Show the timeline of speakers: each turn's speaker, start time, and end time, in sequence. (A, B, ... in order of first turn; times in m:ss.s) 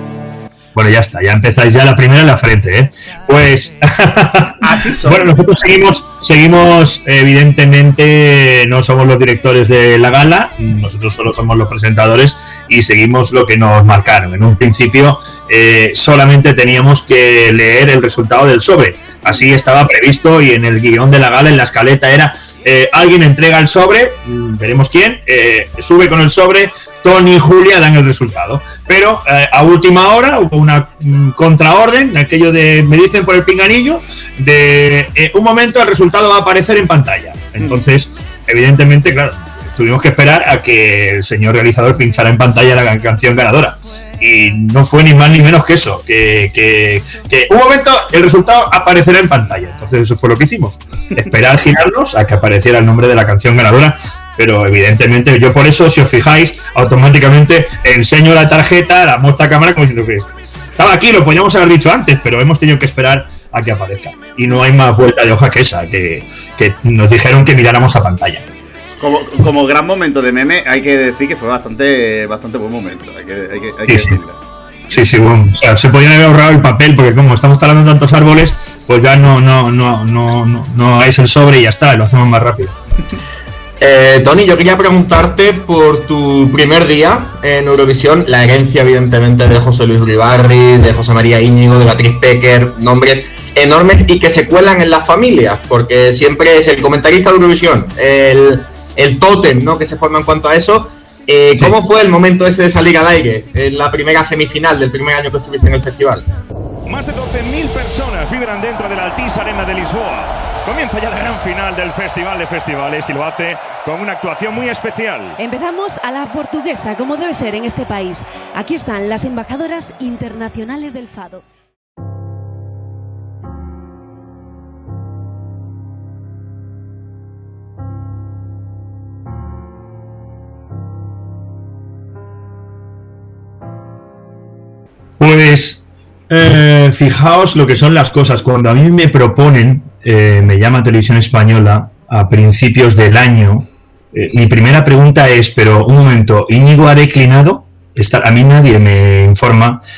0:00.8-1:08.5 A
0:04.6-0:05.3 B
1:09.0-1:14.4 B
1:13.9-1:14.2 A
1:14.9-1:22.8 A
1:23.8-1:46.3 C
1:46.9-1:55.4 D
1:55.4-2:01.4 E
2:15.2-2:29.8 A